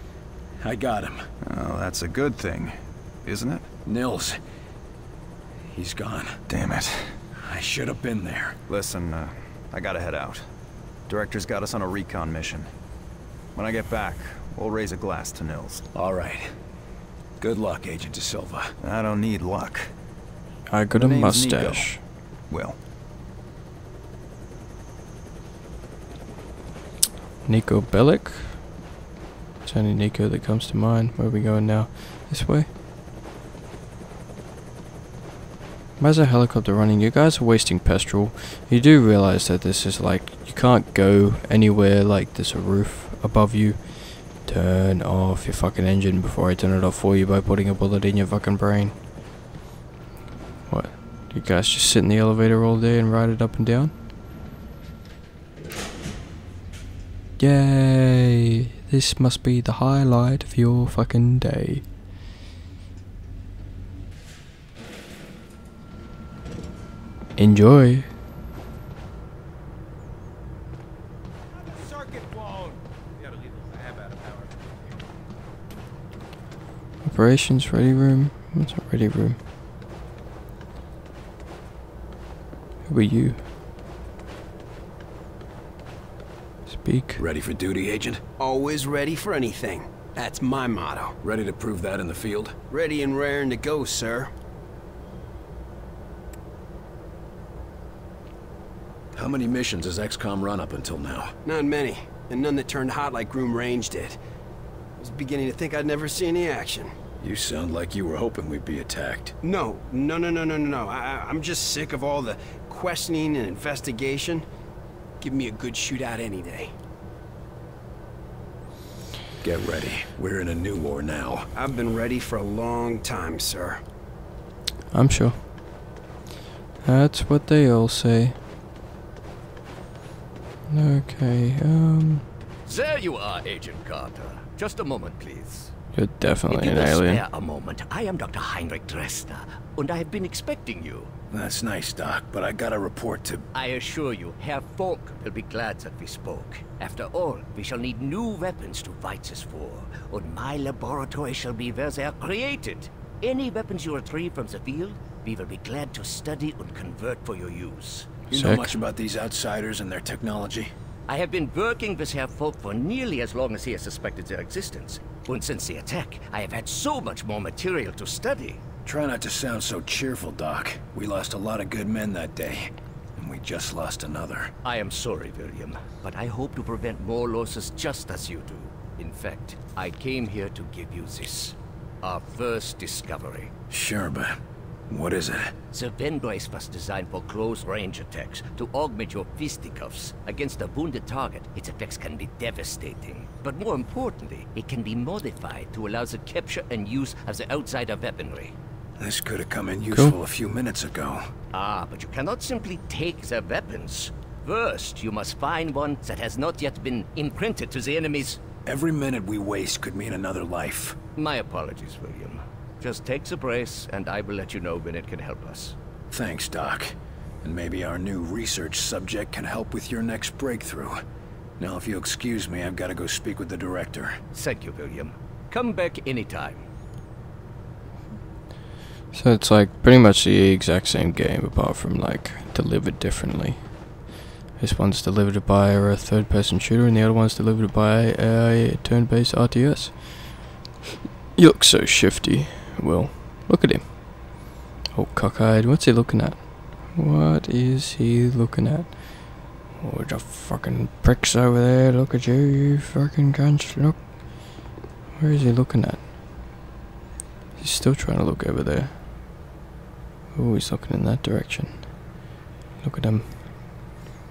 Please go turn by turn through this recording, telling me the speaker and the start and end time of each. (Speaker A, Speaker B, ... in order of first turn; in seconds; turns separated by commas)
Speaker A: 0.6-1.3, Speaker B: 1.4-3.6, Speaker A: 3.9-4.4, Speaker A: 5.7-6.4, Speaker B: 6.5-7.2, Speaker A: 7.4-8.6, Speaker B: 8.7-10.5, Speaker B: 11.1-12.7, Speaker B: 13.6-15.8, Speaker A: 15.9-16.5, Speaker A: 17.4-18.7, Speaker B: 18.8-19.9, Speaker C: 20.7-22.0, Speaker B: 20.9-22.8, Speaker C: 27.4-28.9, Speaker C: 29.6-32.7, Speaker C: 36.0-49.0, Speaker C: 50.7-54.0, Speaker C: 57.4-61.9, Speaker C: 67.4-68.2, Speaker C: 77.0-79.4, Speaker C: 82.8-83.5, Speaker C: 86.7-87.2, Speaker A: 87.2-88.2, Speaker D: 88.4-91.1, Speaker A: 91.2-92.5, Speaker D: 92.7-94.3, Speaker A: 99.1-101.3, Speaker D: 101.5-104.2, Speaker D: 105.0-106.9, Speaker A: 107.2-109.3, Speaker D: 109.4-114.4, Speaker D: 115.2-116.7, Speaker A: 119.4-121.5, Speaker D: 121.5-123.8, Speaker C: 124.9-125.7, Speaker C: 126.8-128.4, Speaker C: 130.7-132.3, Speaker E: 132.7-135.7, Speaker C: 135.9-137.2, Speaker E: 136.5-141.1, Speaker A: 141.3-143.5, Speaker E: 143.5-158.1, Speaker A: 158.3-160.7, Speaker C: 158.3-158.8, Speaker E: 161.1-168.6, Speaker A: 168.8-174.5, Speaker E: 174.7-183.5, Speaker A: 183.7-184.4, Speaker A: 184.9-185.5, Speaker E: 185.7-198.5, Speaker A: 199.0-201.2, Speaker E: 201.5-208.4, Speaker A: 208.7-211.0, Speaker E: 211.2-215.8, Speaker A: 216.1-221.0, Speaker A: 221.6-224.2, Speaker E: 224.3-226.7, Speaker C: 229.1-234.1, Speaker C: 234.6-240.6, Speaker C: 241.3-254.6, Speaker C: 255.2-256.5, Speaker C: 257.6-259.4, Speaker C: 260.3-262.3, Speaker C: 262.8-263.9